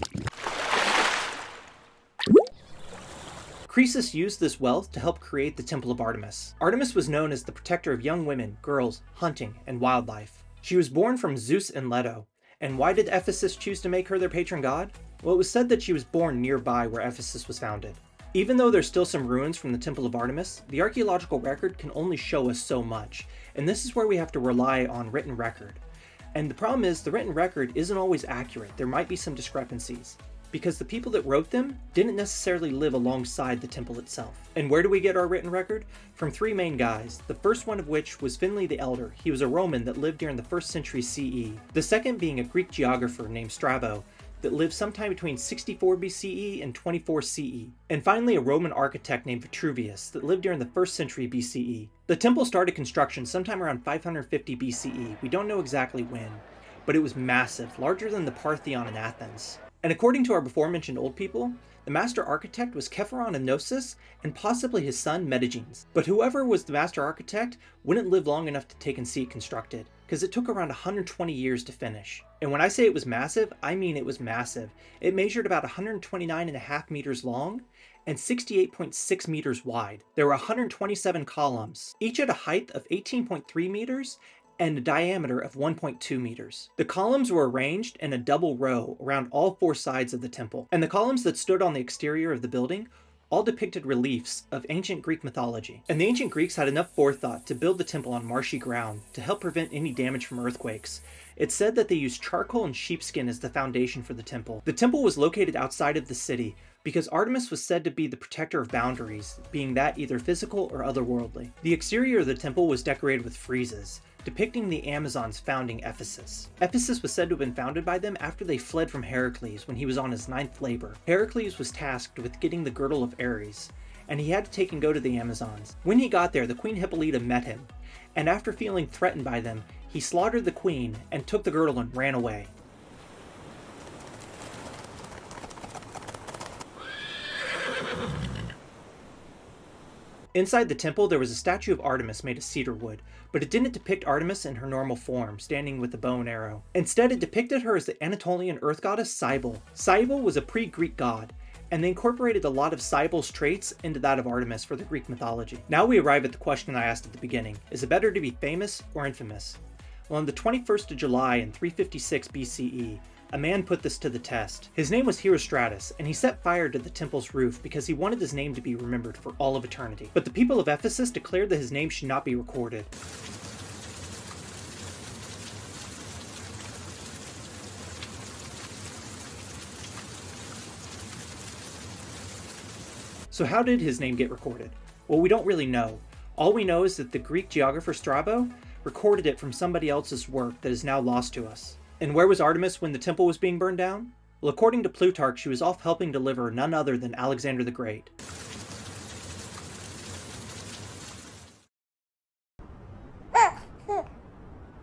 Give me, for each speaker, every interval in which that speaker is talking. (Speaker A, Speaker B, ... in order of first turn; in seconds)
Speaker A: 3.7-25.8, 26.3-132.5, 140.3-172.9, 183.3-198.1